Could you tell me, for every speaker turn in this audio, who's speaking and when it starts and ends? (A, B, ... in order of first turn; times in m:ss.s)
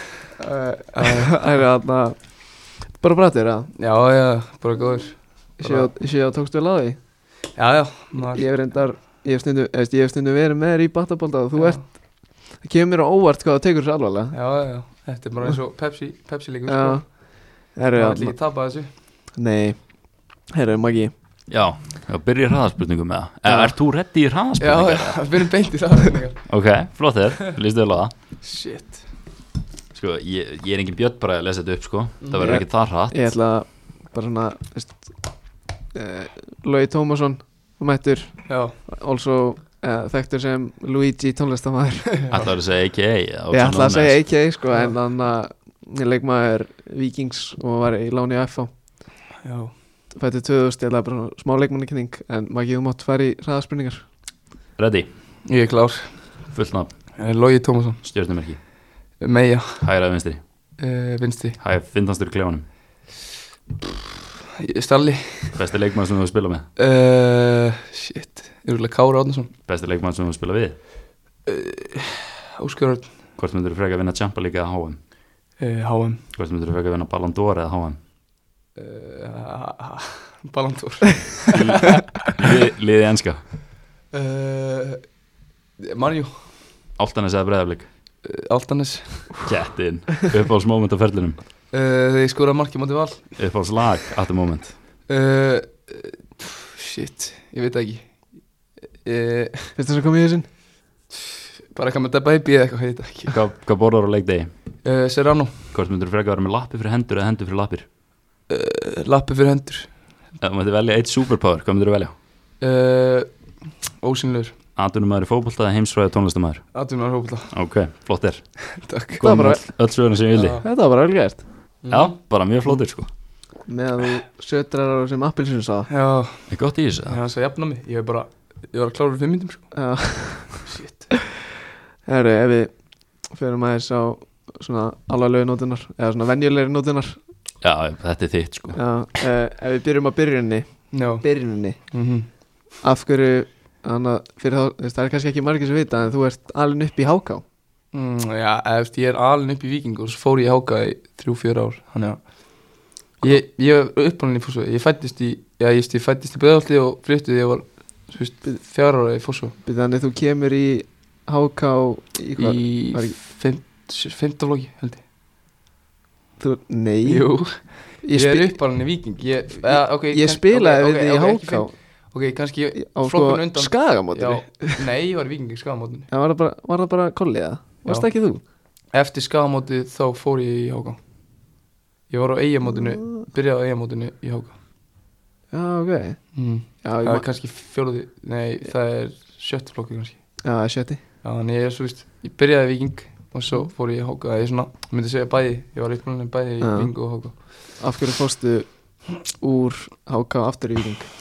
0:00.4-0:01.4 A
0:01.0-0:03.7 B
0:03.8-0:05.9 A
0:05.6-0:07.0 B
0:07.5-0:08.4 A
0:08.2-0:14.4 B
0:11.5-0:11.8 A
0:14.3-0:17.4 A
0:16.7-0:18.4 B
0:17.9-0:18.9 A
0:19.3-0:21.1 B
0:21.5-0:25.3 C
0:24.6-0:26.5 A
0:26.5-0:28.1 C
0:28.4-0:29.1 A
0:29.9-0:33.2 C
0:32.4-0:35.2 B
0:35.9-0:42.5 B
0:38.5-0:38.8 A
0:42.3-0:44.4 C
0:43.5-0:48.7 B
0:49.4-0:49.7 A
0:50.1-0:54.1 B
0:54.8-0:55.1 C
0:55.4-0:56.4 A
0:56.5-0:56.9 C
0:57.2-0:58.0 A
0:58.0-0:58.6 C
0:59.2-0:59.9 A
0:59.8-1:00.4 C
1:00.8-1:01.6 A
1:01.6-1:02.6 C
1:04.6-1:05.6 A
1:05.6-1:06.6 C
1:06.8-1:09.5 A
1:09.7-1:10.8 C
1:11.4-1:13.2 A
1:13.4-1:15.0 C
1:15.6-1:16.2 A
1:16.3-1:18.0 C
1:18.8-1:22.5 A
1:21.5-1:23.5 C
1:24.1-1:25.1 A
1:25.8-1:26.6 A
1:27.0-1:27.9 C
1:28.2-1:29.4 A
1:29.4-1:31.4 C
1:31.7-1:33.4 A
1:33.4-1:34.8 C
1:35.1-1:38.3 A
1:39.0-1:39.7 A
1:39.8-1:40.5 B
1:41.7-1:43.4 A
1:43.3-1:44.5 C
1:44.8-1:45.7 A
1:45.7-1:47.8 C
1:48.5-1:50.0 A
1:50.4-1:52.1 C
1:52.6-1:54.6 A
1:54.8-1:56.7 C
1:56.7-1:57.6 A
1:57.5-1:58.6 C
1:58.8-1:59.6 A
1:59.2-2:00.6 C
1:59.2-1:59.6 B
2:00.3-2:00.7 A
2:00.6-2:01.4 B
2:01.8-2:02.2 A
2:01.9-2:03.1 C
2:03.6-2:05.9 B
2:05.9-2:09.8 A
2:06.5-2:07.2 C
2:09.7-2:10.6 B
2:10.6-2:11.2 A
2:12.0-2:17.2 B
2:17.6-2:18.8 C
2:18.7-2:21.8 B
2:20.9-2:22.3 A
2:22.8-2:27.4 B
2:27.9-2:39.6 A
2:39.6-2:43.2 B
2:42.4-2:45.0 A
2:46.4-2:48.5 B
2:47.0-2:56.1 A
2:49.6-2:51.7 B
2:52.9-2:54.8 B
2:56.1-2:58.4 B
2:57.8-2:58.1 A
2:58.9-3:01.5 A
3:02.1-3:04.6 A
3:02.6-3:03.2 B
3:05.5-3:07.2 B
3:06.3-3:10.3 A
3:10.4-3:11.0 B
3:11.2-3:17.4 A
3:16.6-3:21.1 B